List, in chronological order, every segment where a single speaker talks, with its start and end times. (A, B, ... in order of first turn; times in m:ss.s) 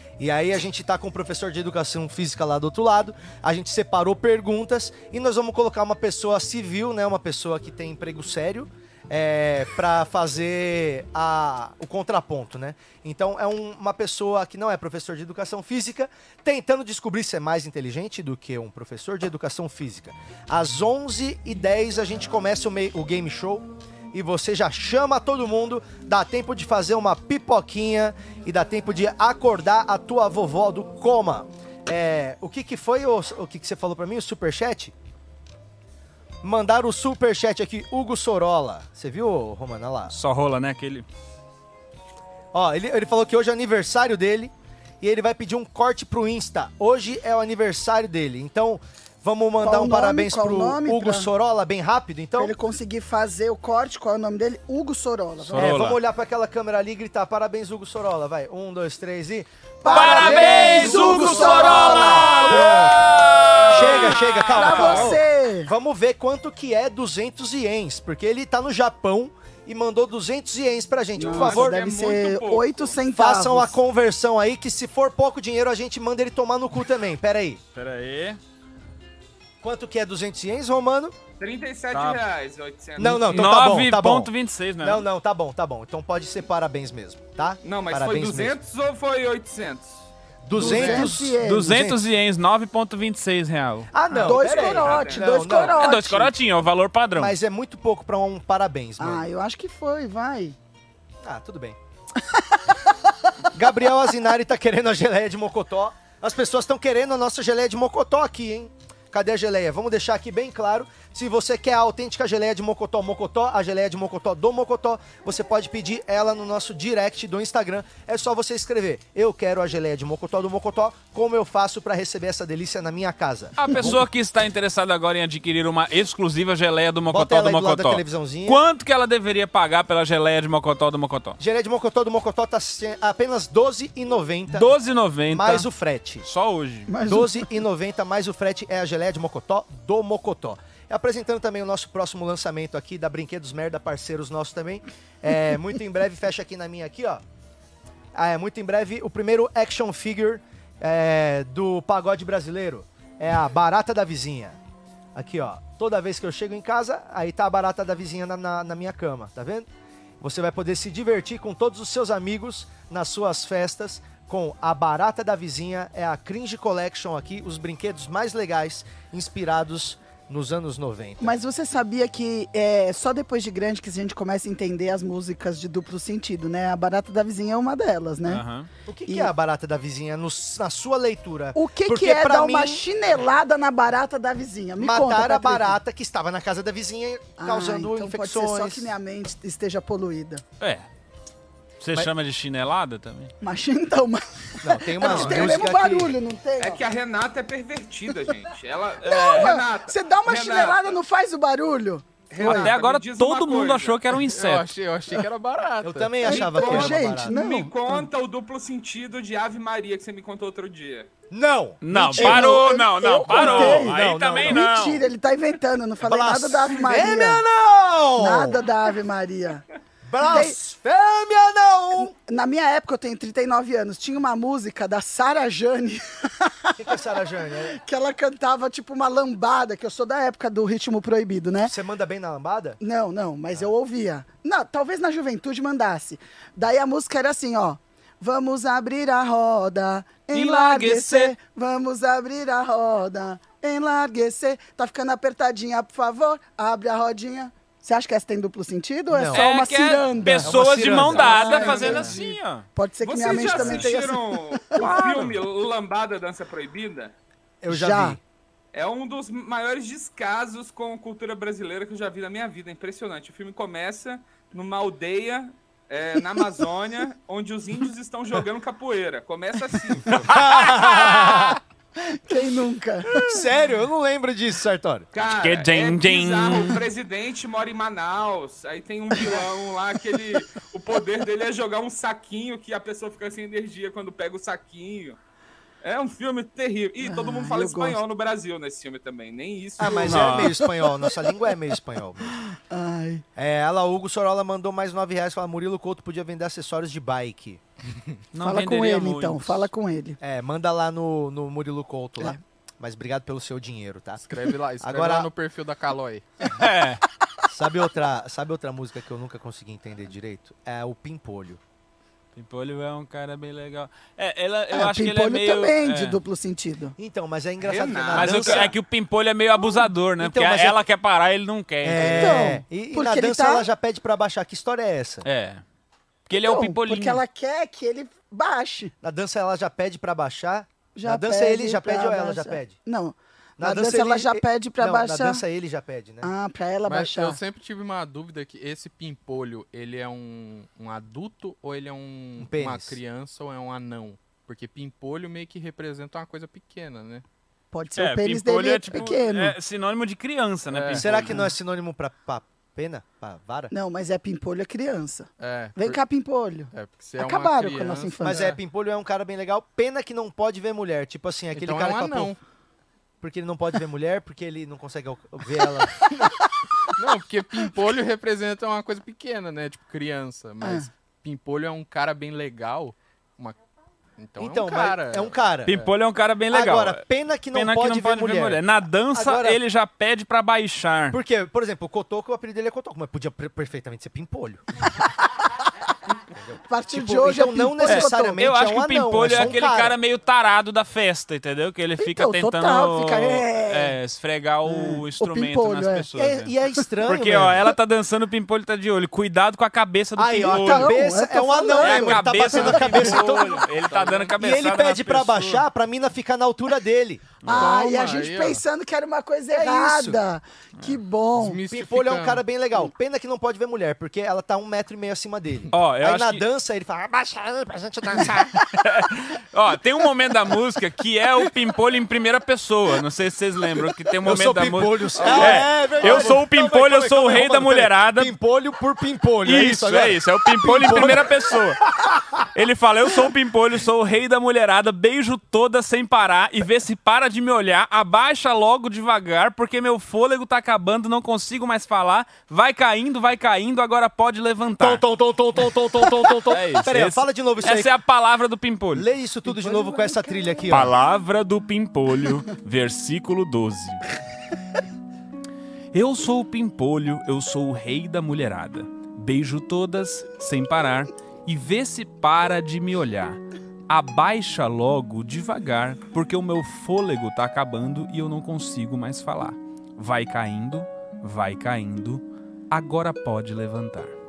0:00.2-0:35.0 A
0:36.4-0:40.1 A
0:40.1-0:41.1 B
0:42.5-0:52.5 A
0:49.6-0:51.3 C
0:52.4-0:55.8 C
0:55.4-0:56.0 B
0:55.6-1:11.8 A
0:59.8-1:02.8 C
0:59.8-1:05.2 B
1:03.6-1:03.9 D
1:04.5-1:05.7 C
1:11.2-1:13.8 C
1:11.2-1:13.0 D
1:13.2-1:17.6 A
1:17.8-1:18.4 B
1:19.6-1:21.2 A
1:21.4-1:23.8 D
1:21.9-1:22.2 B
1:23.0-1:28.6 A
1:23.3-1:25.0 B
1:27.6-1:30.0 D
1:30.5-1:32.0 A
1:30.5-1:31.8 C
1:30.6-1:31.0 D
1:30.7-1:33.9 B
1:33.9-1:36.0 A
1:34.2-1:35.3 D
1:34.2-1:36.3 C
1:35.5-1:37.4 B
1:37.2-1:39.3 A
1:39.0-1:40.6 C
1:41.2-1:41.8 A
1:43.5-2:04.0 A
2:03.6-2:11.4 B
2:07.1-2:08.6 A
2:11.4-2:14.7 A
2:14.5-2:15.7 B
2:15.3-2:16.3 A
2:16.3-2:16.9 B
2:16.9-2:17.5 C
2:17.0-2:27.2 A
2:28.1-2:34.6 A
2:35.2-2:39.7 A
2:40.2-2:51.3 A
2:51.2-2:58.4 C
2:58.3-2:58.7 B
2:58.9-3:02.8 A
3:01.5-3:05.8 C
3:04.8-3:08.9 A
3:07.4-3:10.4 C
3:10.6-3:10.9 B
3:11.8-3:13.3 B
3:13.4-3:16.8 C
3:14.6-3:16.2 A
3:15.0-3:15.5 D
3:16.6-3:21.0 D
3:19.0-3:22.7 C
3:19.1-3:19.5 B
3:22.3-3:24.0 D
3:22.4-3:24.7 B
3:24.2-3:26.3 E
3:25.8-3:27.4 A
3:26.2-3:28.1 C
3:26.3-3:31.1 D
3:31.3-3:32.6 A
3:31.8-3:35.0 B
3:32.1-3:37.4 C
3:33.3-3:34.6 A
3:36.0-3:38.6 A
3:38.2-3:39.6 C
3:40.0-3:42.1 A
3:40.2-3:40.6 C
3:42.0-3:46.8 C
3:46.8-3:47.8 A
3:47.7-3:51.8 C
3:51.6-3:52.8 A
3:52.8-4:10.6 C
4:00.3-4:01.3 B
4:09.1-4:09.5 A
4:09.3-4:12.7 B
4:10.4-4:11.3 A
4:10.9-4:12.2 D
4:11.1-4:14.8 C
4:13.0-4:17.1 D
4:14.7-4:15.3 B
4:17.6-4:18.2 A
4:17.7-4:18.2 C
4:18.7-4:30.3 D
4:30.1-4:31.5 B
4:30.2-4:31.6 A
4:32.0-4:33.4 C
4:33.1-4:35.1 A
4:35.1-4:45.2 D
4:35.4-4:36.8 B
4:45.8-4:50.3 D
4:47.0-4:48.0 C
4:49.8-4:52.4 A
4:49.9-4:51.3 C
4:50.1-4:50.5 B
4:52.5-4:53.2 C
4:53.4-4:57.6 A
4:58.3-4:59.7 B
4:58.4-5:00.2 C
5:00.2-5:05.3 A
5:04.2-5:06.2 E
5:06.6-5:07.0 B
5:07.5-5:11.6 A
5:12.4-5:16.2 B
5:14.7-5:17.0 C
5:17.0-5:18.8 A
5:17.6-5:18.8 D
5:18.1-5:22.5 B
5:20.2-5:20.8 A
5:21.8-5:25.3 A
5:22.2-5:23.7 C
5:25.2-5:25.6 B
5:26.3-5:27.2 B
5:26.3-5:28.9 C
5:29.0-5:32.8 A
5:31.0-5:35.4 C
5:33.6-5:36.3 A
5:36.2-5:37.4 C
5:36.8-5:47.2 E
5:42.4-5:43.0 A
5:47.7-5:49.6 C
5:47.9-5:51.4 B
5:50.7-5:51.2 E
5:50.9-5:53.7 A
5:53.7-5:58.5 C
5:55.4-5:56.0 E
5:56.7-5:58.6 E
5:58.2-6:02.3 A
6:01.5-6:02.4 E
6:03.2-6:06.0 A
6:06.0-6:06.5 C
6:06.9-6:13.6 E
6:10.6-6:10.9 C
6:14.2-6:15.9 E
6:14.4-6:15.7 A
6:15.7-6:21.2 B
6:16.5-6:19.6 A
6:21.1-6:24.6 A
6:26.3-6:30.0 A
6:26.7-6:28.5 C
6:27.9-6:36.5 B
6:32.0-6:34.0 C
6:34.6-6:36.1 C
6:36.1-6:37.8 A
6:37.0-6:41.0 B
6:40.2-6:43.6 A
6:40.5-6:42.6 C
6:41.8-6:45.6 B
6:42.9-6:44.3 E
6:44.4-6:47.4 A
6:47.4-6:47.8 B
6:47.5-6:51.6 C
6:47.5-6:48.6 E
6:49.5-6:50.2 A
6:51.3-6:52.4 E
6:51.7-6:58.6 A
6:55.7-6:56.4 B
6:58.2-7:08.3 B
7:04.2-7:12.5 A
7:06.0-7:06.3 E
7:09.4-7:11.9 B
7:12.5-7:25.0 B
7:24.8-7:28.0 A
7:26.2-7:29.1 B
7:28.9-7:30.9 A
7:29.5-7:30.7 C
7:30.7-7:34.0 B
7:35.9-7:54.2 B